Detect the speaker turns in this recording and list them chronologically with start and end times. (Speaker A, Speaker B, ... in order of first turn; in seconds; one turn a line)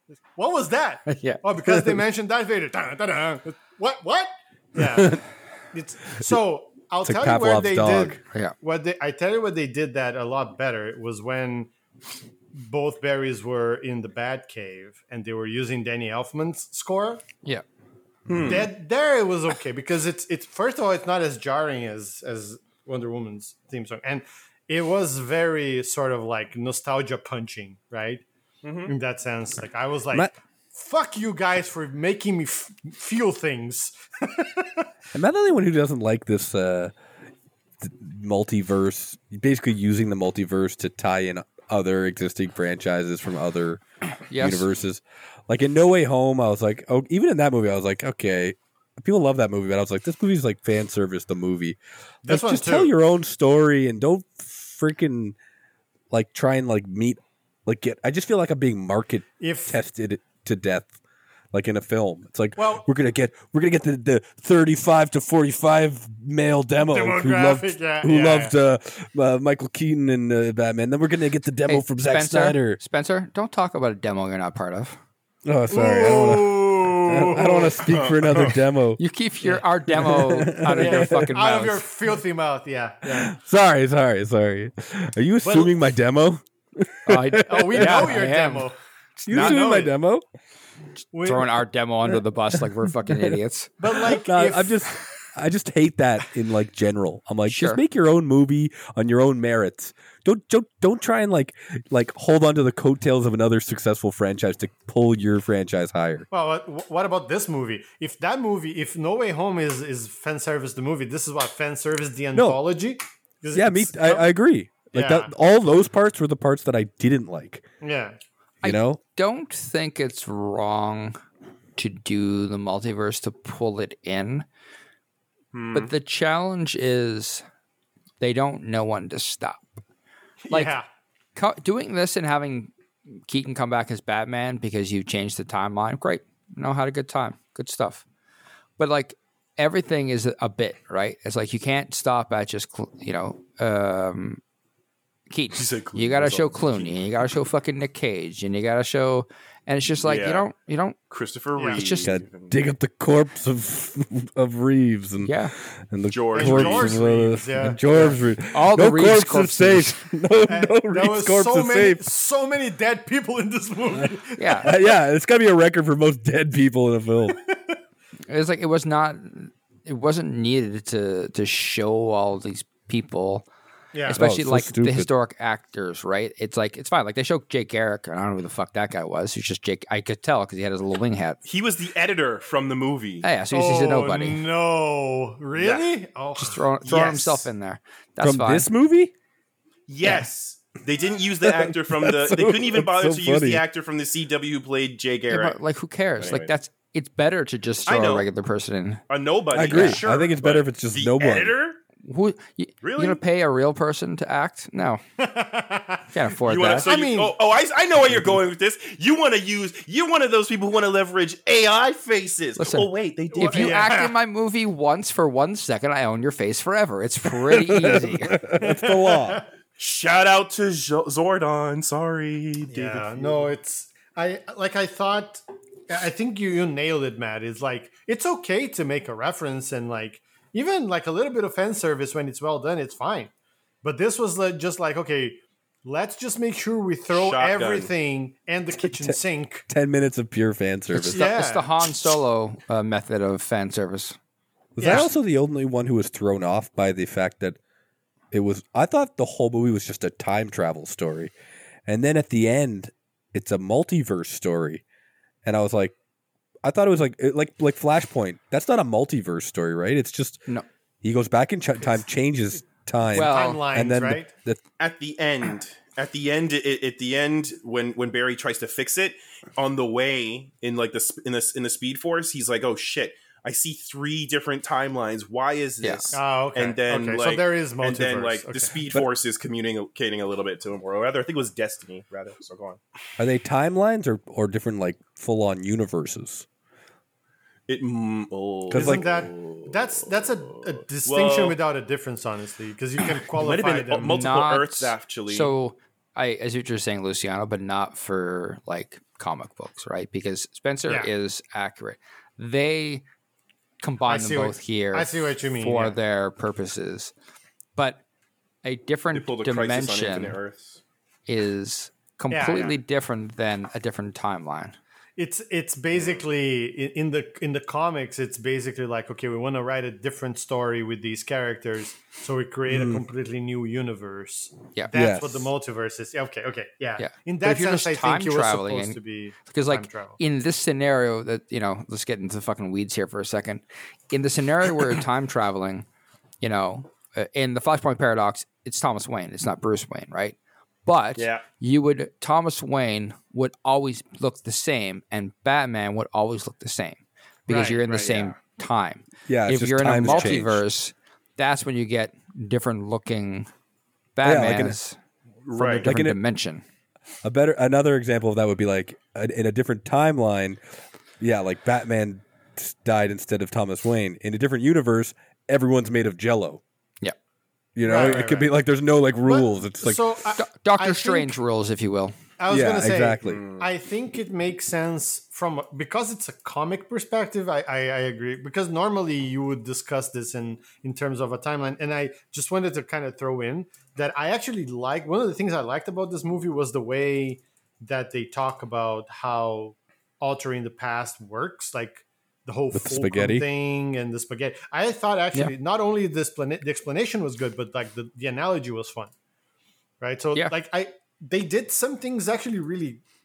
Speaker A: 0.3-11.7
Speaker B: 1.1-2.0
Speaker C: 4.8-5.2
Speaker C: 7.0-8.2
Speaker A: 12.5-17.2
Speaker D: 18.3-18.7
Speaker A: 18.4-28.2
Speaker D: 28.6-28.9
Speaker A: 28.9-34.9
Speaker C: 35.1-36.9
Speaker C: 37.8-43.8
Speaker B: 44.3-44.7
Speaker C: 44.4-55.4
Speaker A: 52.2-52.9
Speaker C: 56.1-60.9
Speaker A: 59.4-59.8
Speaker C: 61.5-72.8
Speaker A: 62.6-62.9
Speaker A: 66.8-68.5
Speaker B: 71.7-75.0
Speaker C: 75.5-79.0
Speaker A: 75.7-77.9
Speaker D: 77.8-78.6
Speaker B: 79.0-81.8
Speaker C: 79.9-81.4
Speaker A: 80.7-83.3
Speaker C: 83.0-88.2
Speaker A: 85.4-85.7
Speaker B: 87.0-89.8
Speaker A: 87.4-88.8
Speaker C: 89.2-90.2
Speaker A: 89.3-89.9
Speaker A: 91.1-91.6
Speaker B: 91.2-93.7
Speaker C: 93.0-93.3
Speaker A: 93.8-95.0
Speaker C: 93.9-106.3
Speaker B: 97.5-97.8
Speaker A: 106.3-114.2
Speaker C: 112.3-112.6
Speaker C: 113.5-117.6
Speaker A: 114.9-115.3
Speaker A: 117.8-118.2
Speaker B: 118.6-121.2
Speaker C: 118.6-119.0
Speaker B: 121.8-124.5
Speaker D: 125.5-125.9
Speaker B: 125.7-127.4
Speaker B: 128.2-129.8
Speaker A: 130.4-130.8
Speaker B: 130.5-130.8
Speaker B: 131.3-138.0
Speaker B: 138.8-144.4
Speaker B: 145.3-151.0
Speaker D: 145.5-146.9
Speaker D: 150.0-150.4
Speaker D: 151.1-152.6
Speaker A: 151.6-151.8
Speaker B: 151.7-152.1
Speaker C: 152.1-155.3
Speaker B: 155.2-155.5
Speaker C: 155.9-162.0
Speaker D: 156.1-157.0
Speaker A: 156.3-158.2
Speaker B: 158.5-159.9
Speaker A: 160.5-164.8
Speaker C: 164.0-167.4
Speaker B: 164.3-164.7
Speaker A: 167.3-167.7
Speaker B: 168.3-173.4
Speaker A: 173.9-174.2
Speaker B: 174.1-181.4
Speaker C: 174.1-175.1
Speaker D: 181.4-183.2
Speaker B: 183.2-184.4
Speaker A: 183.5-187.5
Speaker D: 185.5-185.9
Speaker B: 186.4-188.7
Speaker D: 186.9-187.2
Speaker C: 188.2-189.1
Speaker D: 189.9-195.6
Speaker B: 190.0-190.3
Speaker C: 191.4-193.6
Speaker B: 195.3-199.0
Speaker D: 196.2-196.5
Speaker D: 197.8-198.2
Speaker D: 199.1-201.8
Speaker C: 199.5-201.5
Speaker B: 199.6-200.0
Speaker B: 202.0-205.0
Speaker D: 202.8-203.2
Speaker A: 205.2-206.1
Speaker B: 206.1-206.9
Speaker D: 206.4-213.8
Speaker A: 206.8-207.3
Speaker B: 212.6-218.4
Speaker A: 213.3-214.1
Speaker C: 217.5-219.4
Speaker A: 218.6-219.4
Speaker D: 219.8-223.5
Speaker A: 222.7-233.3
Speaker A: 233.8-239.6
Speaker D: 237.1-237.9
Speaker C: 238.8-241.2
Speaker B: 240.9-244.2
Speaker A: 241.0-241.7
Speaker C: 244.8-247.6
Speaker A: 244.8-245.1
Speaker C: 248.3-251.3
Speaker C: 251.8-254.8
Speaker C: 255.4-255.9
Speaker C: 256.6-260.4
Speaker C: 261.0-264.6
Speaker B: 263.1-263.6
Speaker A: 263.2-264.3
Speaker D: 264.8-282.8
Speaker B: 275.8-276.1
Speaker A: 276.1-278.8
Speaker C: 283.2-286.4
Speaker D: 287.7-291.6
Speaker C: 288.7-289.0
Speaker A: 288.7-294.2
Speaker D: 293.3-295.5
Speaker B: 294.1-303.0
Speaker B: 303.8-307.1
Speaker A: 304.1-306.0
Speaker B: 307.8-308.0
Speaker B: 308.6-310.4
Speaker D: 309.1-310.8
Speaker B: 311.3-314.8
Speaker A: 312.3-312.8
Speaker A: 315.2-330.2
Speaker C: 322.7-323.0
Speaker C: 324.9-325.5
Speaker B: 327.0-335.9
Speaker B: 336.4-353.5
Speaker D: 341.2-341.4
Speaker A: 347.5-347.9
Speaker D: 347.8-348.3
Speaker C: 349.3-350.6
Speaker D: 350.1-350.4
Speaker B: 354.1-355.0
Speaker C: 354.2-354.8
Speaker D: 355.4-355.9
Speaker B: 355.5-356.6
Speaker C: 355.8-356.2
Speaker C: 357.2-360.6
Speaker C: 361.2-366.6
Speaker C: 367.7-370.0
Speaker A: 367.8-368.5
Speaker A: 369.2-371.4
Speaker B: 370.4-372.2
Speaker A: 372.4-399.1
Speaker C: 372.5-373.4
Speaker D: 373.2-373.7
Speaker C: 392.7-393.5
Speaker A: 400.0-403.0